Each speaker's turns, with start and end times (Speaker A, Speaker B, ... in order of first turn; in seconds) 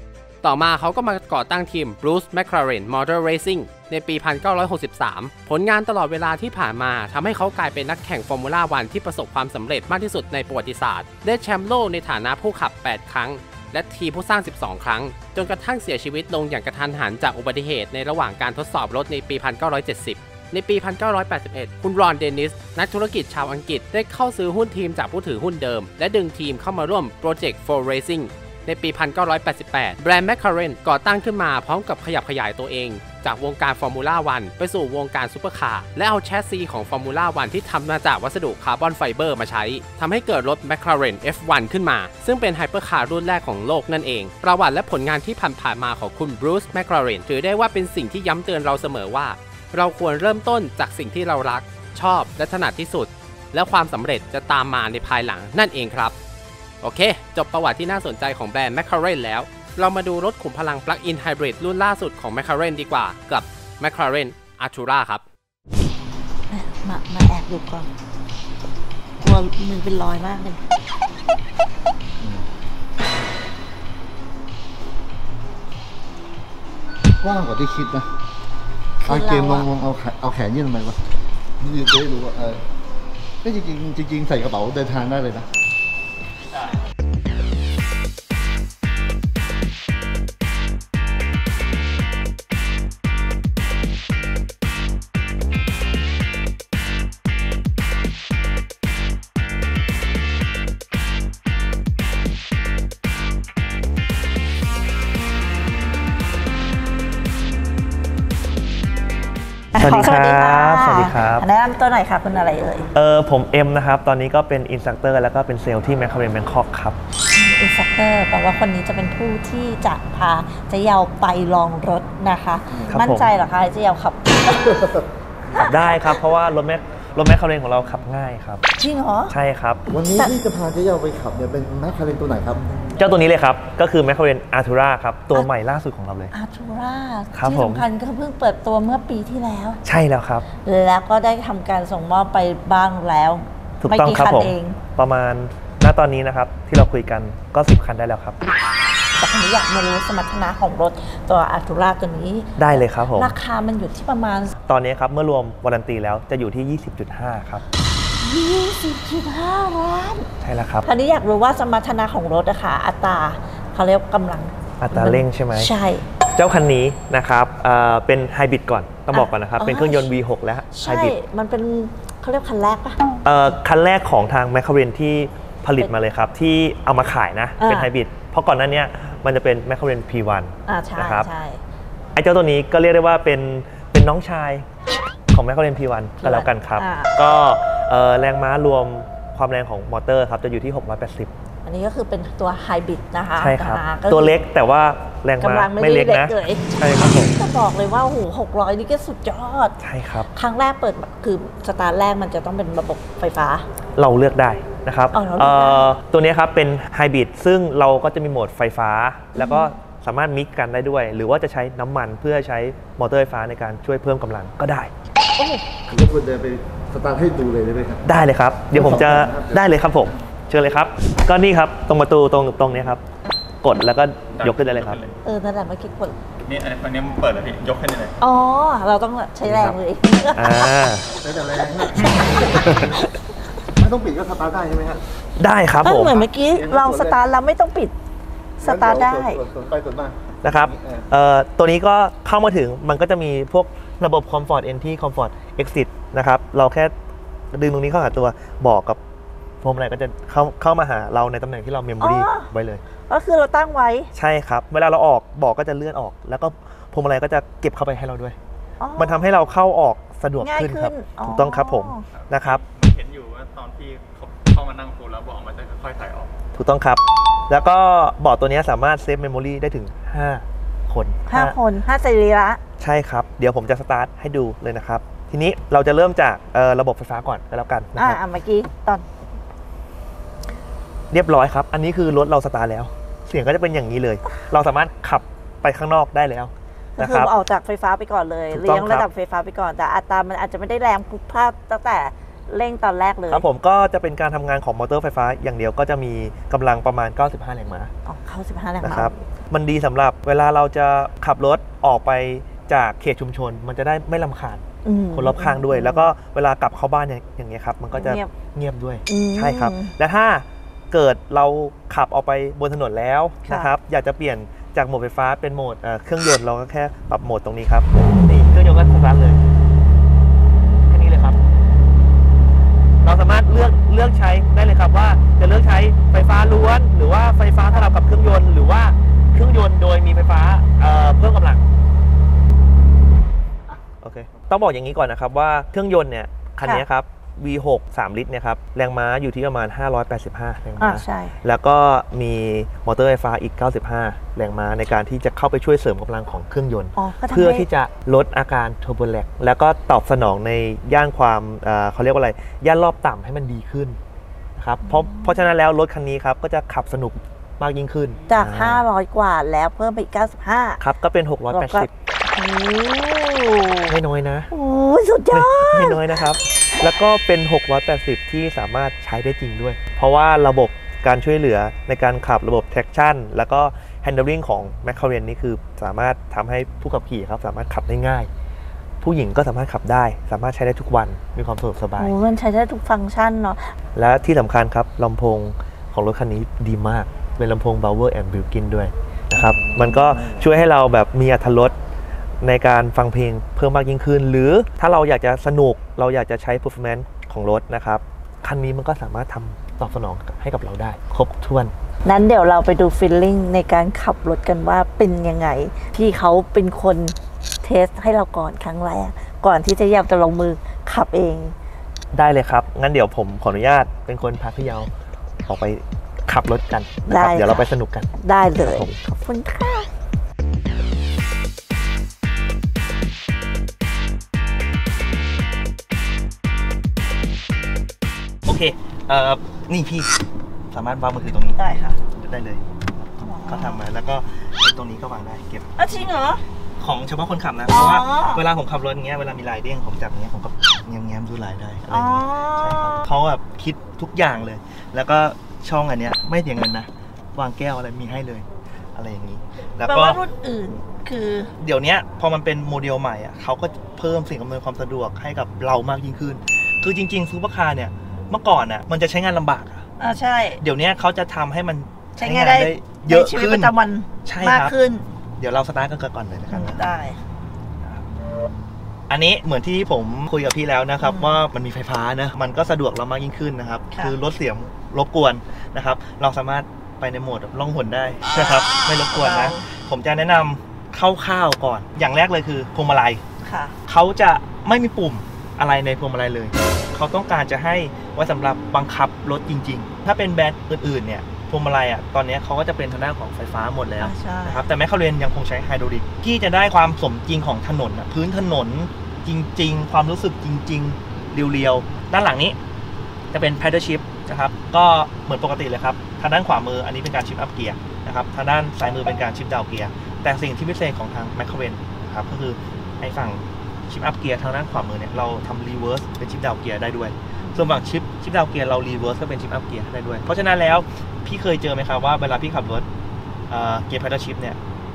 Speaker A: 0.4-56.1, 56.8-65.2
Speaker B: 66.5-67.9, 69.2-70.6, 79.0-79.7, 109.7-112.9, 117.3-124.8, 128.8-129.3, 136.3-139.8, 140.6-144.8, 149.2-154.6, 158.2-160.3, 160.8-166.0, 169.1-170.1, 170.7-173.0, 177.6-177.9, 180.7-181.6, 186.2-187.1, 191.6-194.3, 195.4-199.8, 200.3-203.6, 205.1-205.9, 209.3-209.7, 215.4-215.7, 225.2-226.2, 228.2-230.7, 231.9-232.3, 235.8-237.9, 238.6-239.4, 252.0-252.5, 253.1-254.1, 258.8-259.3, 260.4-262.1, 271.3-272.6, 277.9-279.1, 287.0-293.4, 298.1-299.2, 304.8-306.1, 307.9-308.3, 309.1-309.9, 313.4-313.7, 340.8-341.4, 346.9-347.7, 354.8-355.4, 358.3-360.8, 361.5-363.9, 364.5-366.2, 382.0-383.6, 402.1-411.5, 417.1-419.9, 431.5-432.0, 433.2-433.8, 435.8-436.4, 437.7-438.4, 441.9-443.0, 449.9-451.5, 460.0-460.6, 462.2-465.1, 466.5-467.2, 471.0-471.4, 473.9-474.1, 478.3-479.6, 483.4-483.8, 494.0-494.6, 517.4-517.8
Speaker C: 72.2-72.4, 77.2-78.1, 79.0-81.0, 81.6-82.6, 83.4-85.5, 129.9-132.9, 215.9-218.2, 218.7-219.7, 231.1-233.1, 233.7-235.0, 236.4-237.2, 238.6-241.1
Speaker D: 109.8-111.5, 112.9-117.0, 122.9-123.3, 125.5-128.6, 129.3-129.8, 133.0-136.3, 137.3-137.8, 139.8-140.4, 143.8-148.4, 152.6-153.3, 154.7-157.6, 160.4-160.8, 164.8-165.7, 166.3-171.2, 173.2-181.3, 182.1-184.6, 185.3-191.3, 193.3-197.3, 199.8-200.3, 204.0-214.9, 218.0-223.0, 223.6-225.0, 229.4-229.8, 230.3-231.1, 232.6-232.9, 235.4-236.2, 240.4-246.9, 247.5-249.0, 249.6-252.8, 254.1-258.4, 259.0-262.6, 266.5-271.6, 272.8-278.2, 281.1-287.3, 288.5-289.1, 293.3-297.9, 298.8-304.6, 305.1-319.4, 320.9-321.4, 323.0-331.6, 334.0-354.0, 354.6-358.8, 360.8-361.9, 363.9-364.5, 365.3-378.3, 379.0-382.1, 383.9-391.7, 392.4-401.7, 412.1-414.9, 415.4-419.0, 428.4-430.1, 430.7-431.6, 432.1-435.7, 436.8-450.2, 451.6-459.8, 460.6-463.7, 464.2-464.7, 465.4-466.8, 469.1-483.2, 483.9-502.6, 503.3-522.9, 523.5-524.6
Speaker E: 224.3-225.1, 226.4-228.2, 262.1-266.3